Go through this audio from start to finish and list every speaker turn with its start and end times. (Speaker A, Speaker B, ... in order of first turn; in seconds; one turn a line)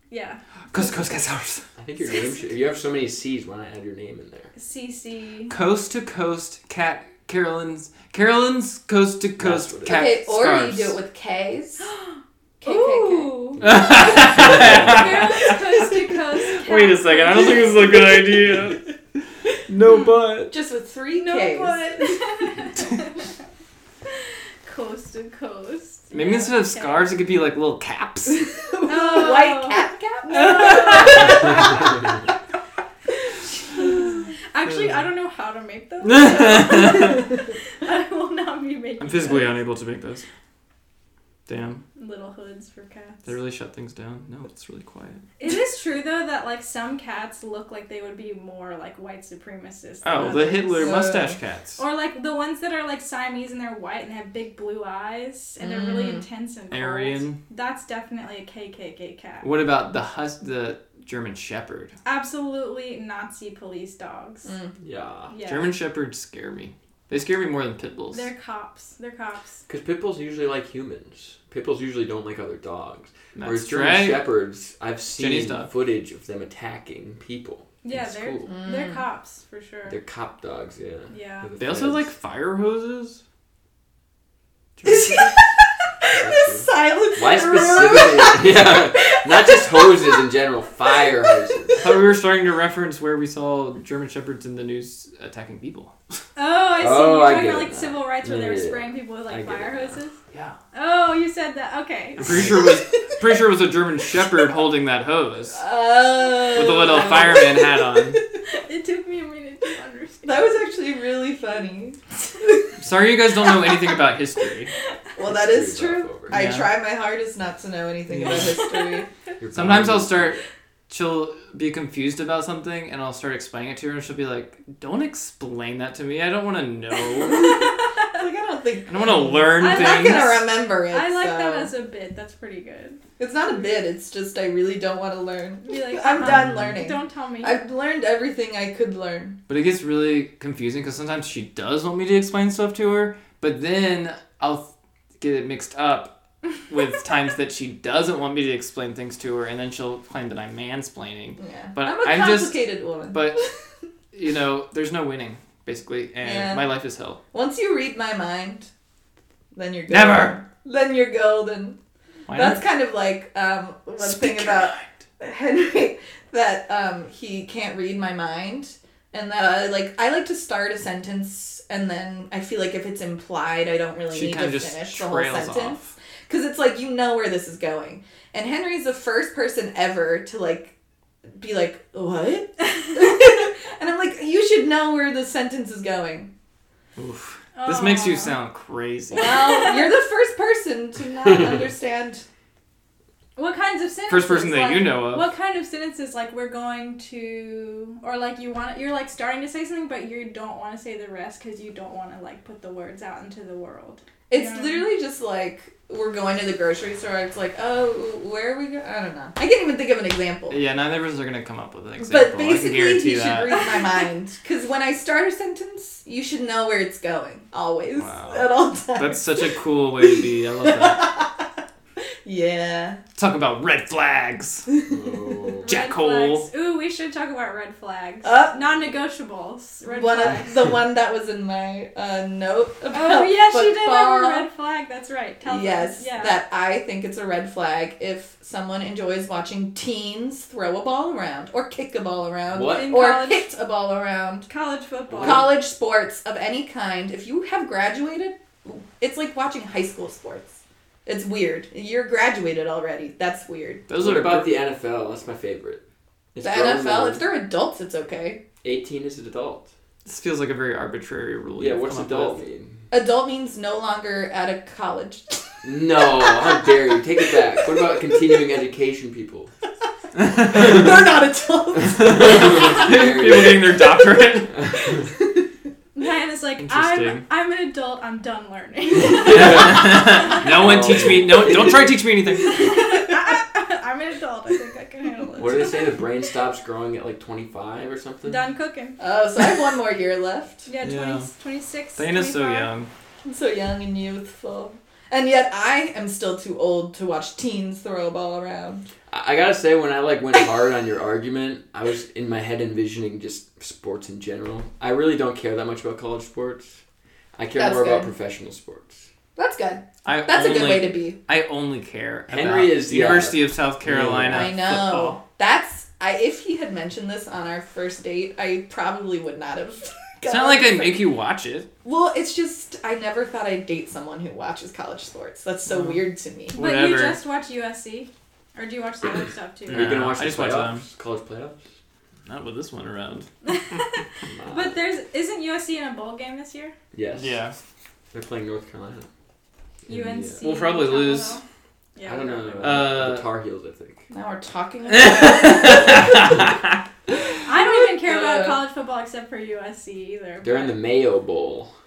Speaker A: 0.1-1.0
Speaker B: 0.7-1.6
Speaker C: 1.8-4.5
Speaker A: 4.5-5.5
Speaker B: 5.5-11.0
Speaker C: 9.4-10.1
Speaker D: 9.8-11.9
Speaker A: 11.8-13.6
Speaker D: 12.6-13.6
Speaker C: 13.6-15.3
Speaker B: 13.6-18.8
Speaker A: 14.2-18.1
Speaker B: 19.7-20.5
Speaker A: 19.9-20.1
Speaker D: 20.5-22.5
Speaker A: 21.1-23.3
Speaker A: 24.1-27.1
Speaker B: 26.1-28.5
Speaker D: 28.5-31.9
Speaker A: 28.9-31.9
Speaker B: 30.3-31.8
Speaker D: 33.8-34.3
Speaker A: 34.5-39.6
Speaker B: 34.6-35.1
Speaker B: 36.0-37.3
Speaker B: 39.0-40.2
Speaker B: 41.5-41.8
Speaker A: 42.0-43.2
Speaker B: 43.2-45.2
Speaker A: 45.4-51.0
Speaker B: 50.0-51.8
Speaker D: 50.8-51.4
Speaker A: 51.8-59.5
Speaker D: 55.6-56.2
Speaker B: 56.7-57.4
Speaker B: 59.4-61.9
Speaker A: 62.0-64.5
Speaker D: 64.4-64.7
Speaker C: 64.8-65.3
Speaker A: 65.3-65.7
Speaker B: 65.4-68.3
Speaker A: 68.1-69.6
Speaker C: 69.7-78.5
Speaker B: 73.3-74.3
Speaker B: 75.1-75.7
Speaker A: 77.8-80.0
Speaker D: 78.5-79.0
Speaker C: 79.9-82.1
Speaker A: 81.1-81.5
Speaker B: 81.6-83.2
Speaker B: 84.8-85.3
Speaker D: 84.8-90.3
Speaker C: 86.1-91.8
Speaker D: 90.9-91.8
Speaker B: 91.8-95.9
Speaker A: 96.4-100.2
Speaker C: 96.8-100.0
Speaker B: 100.3-100.6
Speaker A: 100.7-102.6
Speaker B: 102.2-105.6
Speaker D: 105.5-108.4
Speaker B: 106.5-108.2
Speaker A: 108.5-110.5
Speaker D: 110.2-112.7
Speaker B: 112.8-114.7
Speaker D: 115.2-119.1
Speaker C: 115.2-116.4
Speaker B: 116.3-116.7
Speaker B: 118.1-118.6
Speaker C: 119.4-120.4
Speaker B: 119.5-127.7
Speaker D: 127.2-131.7
Speaker B: 128.9-130.4
Speaker A: 129.6-133.0
Speaker D: 133.2-139.4
Speaker A: 135.6-137.6
Speaker B: 136.2-136.8
Speaker B: 139.5-144.7
Speaker B: 145.2-153.4
Speaker D: 151.4-153.5
Speaker B: 154.1-157.2
Speaker D: 156.2-156.7
Speaker D: 157.3-158.7
Speaker D: 159.5-161.8
Speaker B: 159.9-160.4
Speaker B: 162.3-162.6
Speaker D: 162.3-180.7
Speaker B: 164.0-165.0
Speaker B: 174.1-175.9
Speaker D: 181.3-186.3
Speaker B: 187.0-189.4
Speaker A: 187.5-188.4
Speaker D: 189.1-192.2
Speaker A: 189.2-189.8
Speaker C: 191.2-191.6
Speaker A: 193.4-204.9
Speaker B: 194.1-195.3
Speaker D: 204.3-210.6
Speaker B: 210.5-213.6
Speaker D: 212.0-219.5
Speaker A: 213.6-214.0
Speaker B: 218.0-221.1
Speaker D: 220.1-221.6
Speaker D: 222.2-223.0
Speaker B: 223.2-224.7
Speaker D: 224.7-225.5
Speaker C: 224.9-225.7
Speaker A: 225.6-230.5
Speaker B: 225.6-226.5
Speaker D: 228.2-228.7
Speaker D: 229.8-234.4
Speaker A: 232.9-236.4
Speaker D: 235.4-244.5
Speaker C: 242.5-242.9
Speaker A: 242.7-243.5
Speaker A: 244.5-245.5
Speaker C: 245.1-245.5
Speaker D: 245.2-253.9
Speaker B: 253.9-254.5
Speaker C: 253.9-255.8
Speaker C: 256.3-257.2
Speaker D: 256.4-258.4
Speaker C: 258.6-259.7
Speaker B: 260.0-262.4
Speaker C: 261.6-262.8
Speaker D: 262.9-268.4
Speaker C: 265.6-269.5
Speaker B: 270.1-270.8
Speaker D: 270.4-272.8
Speaker C: 271.8-273.8
Speaker B: 272.0-274.5
Speaker C: 274.5-275.0
Speaker D: 274.7-275.4
Speaker A: 275.9-280.4
Speaker B: 276.6-277.2
Speaker C: 278.9-282.0
Speaker B: 279.3-282.8
Speaker A: 282.4-286.1
Speaker C: 285.4-288.4
Speaker A: 288.2-289.0
Speaker D: 289.0-290.7
Speaker A: 290.7-292.7
Speaker B: 290.8-291.3
Speaker B: 291.9-292.9
Speaker D: 293.2-298.9
Speaker C: 299.1-306.8
Speaker C: 307.4-309.1
Speaker D: 307.6-308.1
Speaker D: 309.4-311.2
Speaker B: 310.0-315.2
Speaker C: 312.3-314.6
Speaker D: 314.3-321.0
Speaker B: 320.3-321.7
Speaker D: 321.8-326.6
Speaker B: 325.7-326.0
Speaker B: 326.5-327.2
Speaker A: 326.5-330.0
Speaker B: 329.7-330.9
Speaker C: 329.7-331.6
Speaker B: 332.2-333.8
Speaker A: 333.4-336.7
Speaker C: 334.2-334.8
Speaker C: 336.9-337.4
Speaker B: 337.1-337.6
Speaker C: 338.1-339.1
Speaker C: 339.9-340.4
Speaker A: 339.9-341.4
Speaker B: 340.4-341.4
Speaker A: 341.9-342.8
Speaker C: 342.0-344.0
Speaker B: 342.6-343.3
Speaker D: 344.1-346.4
Speaker B: 344.9-346.8
Speaker A: 347.4-350.8
Speaker D: 347.5-348.6
Speaker C: 350.4-351.7